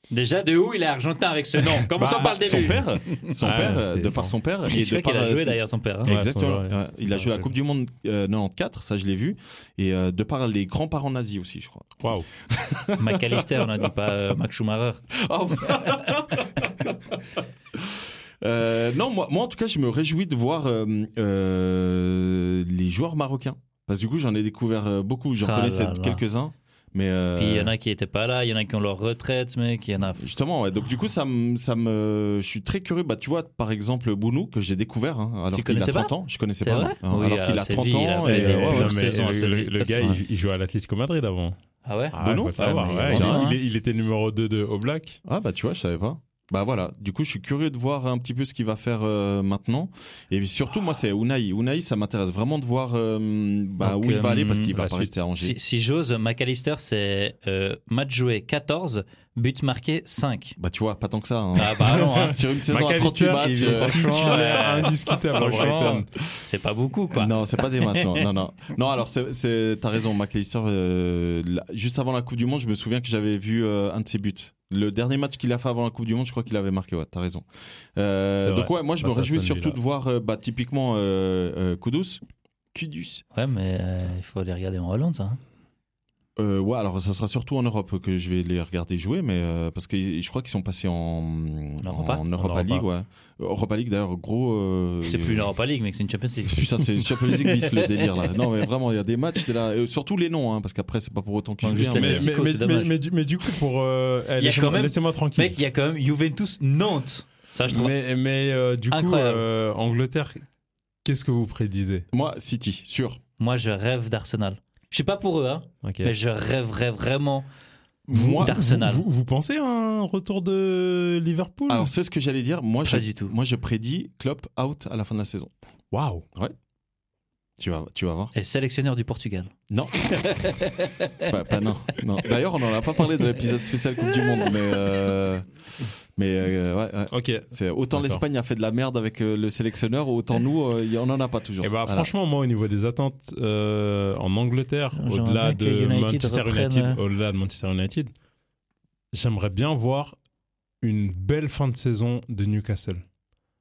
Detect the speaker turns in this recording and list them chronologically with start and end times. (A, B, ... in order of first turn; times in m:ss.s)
0:00.1-0:03.3 A
0:01.7-0:04.3 B
0:02.4-0:13.9 C
0:04.7-0:06.2 A
0:06.1-0:07.5 B
0:12.0-0:12.3 B
0:13.0-0:16.2 A
0:15.1-0:27.7 C
0:25.4-0:26.2 A
0:27.4-0:30.4 A
0:30.1-0:38.9 C
0:35.5-0:40.0 A
0:38.2-0:41.6 B
0:41.8-0:43.6 A
0:42.1-0:45.2 B
0:42.2-0:43.5 C
0:45.2-0:55.6 C
0:53.8-0:54.7 A
0:54.7-0:55.2 B
0:55.3-1:00.6 A
1:00.6-1:04.8 C
1:01.6-1:02.4 A
1:01.9-1:06.1 B
1:03.6-1:08.2 A
1:07.1-1:22.2 C
1:18.4-1:19.8 B
1:22.7-1:23.2 C
1:23.3-1:25.4 A
1:26.4-1:35.5 C
1:31.8-1:32.2 A
1:32.4-1:32.8 B
1:35.0-1:38.5 A
1:36.5-1:42.3 C
1:41.6-1:42.9 A
1:41.7-1:45.6 B
1:44.4-1:48.0 A
1:47.7-1:50.4 B
1:48.9-1:49.4 A
1:51.0-1:52.1 B
1:52.1-1:53.2 C
1:53.4-1:57.5 A
1:55.8-1:56.1 B
1:58.1-1:58.6 C
1:58.1-2:01.9 B
1:58.4-1:59.0 A
2:01.7-2:05.5 C
2:02.8-2:03.4 A
2:05.9-2:06.2 B
2:07.6-2:08.3 C
2:08.3-2:09.5 A
2:09.7-2:10.2 C
2:10.0-2:11.3 A
2:11.3-2:15.5 C
2:16.2-2:22.1 C
2:17.1-2:18.2 B
2:21.6-2:28.1 B
2:25.0-2:27.0 A
2:29.1-2:30.2 B
2:30.8-2:33.0 B